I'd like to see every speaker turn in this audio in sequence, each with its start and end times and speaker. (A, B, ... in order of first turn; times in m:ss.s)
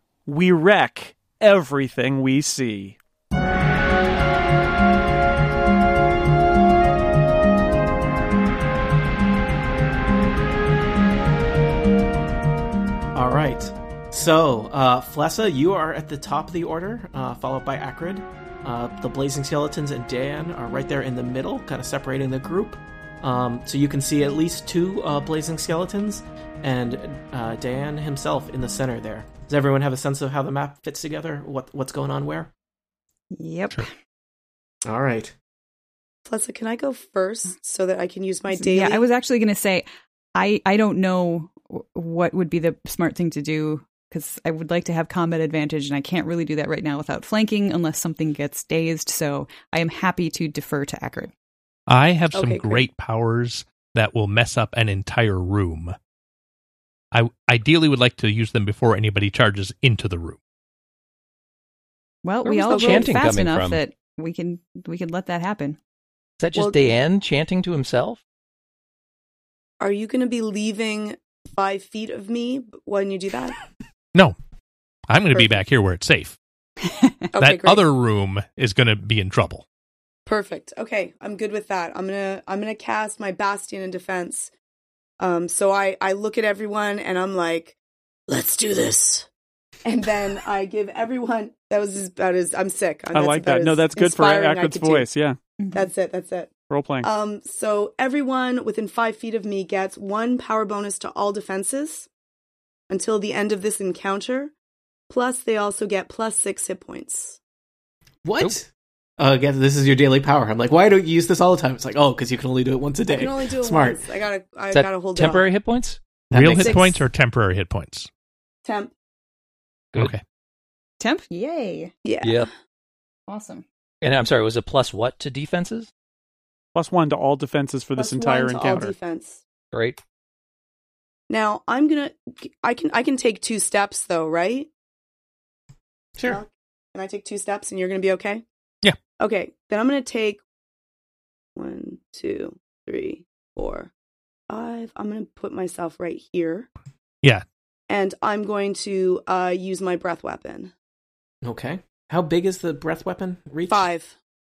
0:00.2-0:03.0 A
0:13.1-0:32.5 B
0:33.3-0:33.9 C
0:34.8-0:35.3 B
0:36.3-0:39.1 D
0:38.5-0:51.3 C
0:51.9-0:56.0 E
0:52.3-0:52.8 D
0:57.1-1:00.4 E
1:02.2-1:05.8 C
1:02.4-1:03.8 F
1:02.7-1:03.2 D
1:06.4-1:08.2 F
1:06.6-1:06.8 D
1:09.8-1:13.6 D
1:15.1-1:16.4 E
1:15.3-1:15.6 D
1:17.3-1:17.8 D
1:17.4-1:19.6 E
1:20.2-1:24.5 D
1:25.2-1:27.8 D
1:28.3-1:29.3 D
1:29.8-1:35.1 D
1:33.1-1:35.4 A
1:35.6-1:35.9 C
1:35.7-1:36.5 D
1:36.7-1:37.1 A
1:37.0-1:42.1 D
1:42.9-1:44.5 D
1:45.1-1:47.4 D
1:48.2-1:48.7 B
1:49.2-1:54.0 B
1:53.1-1:55.5 D
1:54.7-1:56.0 F
1:56.3-1:56.9 B
1:56.3-1:58.1 E
1:58.6-1:58.9 D
1:59.9-2:00.2 E
2:01.0-2:01.9 C
2:02.0-2:02.4 D
2:02.2-2:02.5 F
2:03.3-2:03.6 C
2:04.0-2:05.9 F
2:06.7-2:08.9 A
2:08.0-2:09.4 D
2:09.7-2:10.0 F
2:11.3-2:14.7 D
2:16.2-2:18.4 D
2:19.2-2:20.4 D
2:21.6-2:23.9 D
2:24.5-2:26.7 D
2:27.9-2:30.7 D
2:31.4-2:33.9 B
2:33.7-2:34.2 D